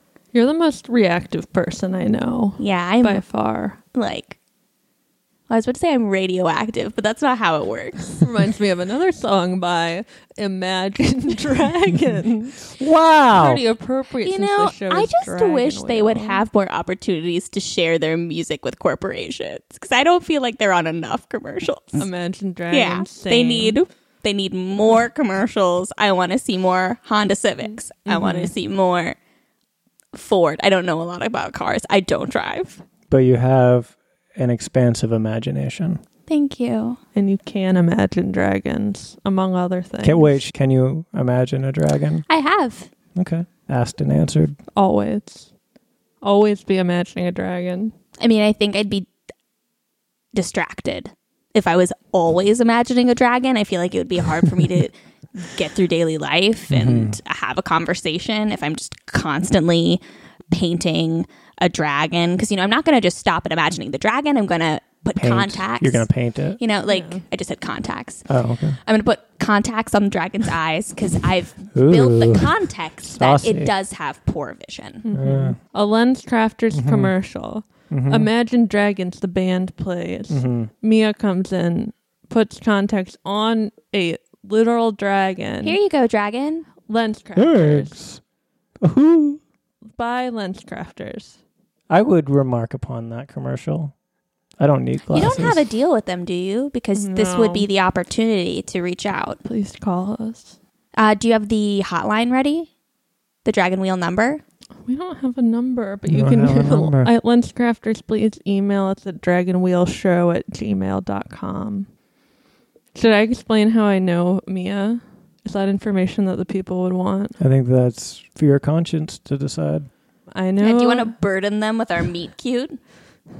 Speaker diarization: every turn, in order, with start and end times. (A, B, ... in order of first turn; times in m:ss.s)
0:00.3-0:03.8 A
0:02.6-0:03.2 B
0:03.9-0:04.4 B
0:05.5-0:08.2 B
0:08.2-0:12.8 A
0:12.8-0:13.6 C
0:13.3-0:16.4 A
0:14.2-0:22.1 B
0:22.0-0:23.8 A
0:22.7-0:29.2 B
0:27.6-0:28.5 A
0:30.1-0:32.8 B
0:33.1-0:36.0 C
0:36.3-0:37.0 B
0:37.1-0:40.4 A
0:40.0-0:42.2 C
0:42.3-0:42.9 B
0:43.2-0:44.6 C
0:44.8-0:45.5 A
0:46.2-0:47.9 A
0:48.2-0:49.1 B
0:50.3-1:06.1 B
0:56.7-0:57.2 C
1:05.2-1:06.6 C
1:06.6-1:08.2 B
1:06.9-1:07.2 A
1:08.3-1:08.8 C
1:08.8-1:15.0 B
1:11.7-1:12.6 C
1:13.2-1:13.7 C
1:15.0-1:25.8 A
1:15.1-1:15.6 C
1:16.7-1:17.1 C
1:17.9-1:18.3 C
1:20.3-1:20.7 C
1:25.6-1:26.7 B
1:26.9-1:28.0 A
1:27.4-1:28.2 C
1:28.8-1:29.4 C
1:29.9-1:31.4 A
1:31.9-1:33.9 C
1:34.6-1:35.6 C
1:35.1-1:39.4 B
1:36.9-1:37.7 A
1:39.4-1:40.6 A
1:41.0-1:42.7 B
1:43.4-1:44.4 B
1:44.8-1:51.9 A
1:46.1-1:47.1 C
1:52.9-1:57.4 A
1:57.4-1:59.9 C
2:00.3-2:01.1 A
2:00.6-2:02.8 B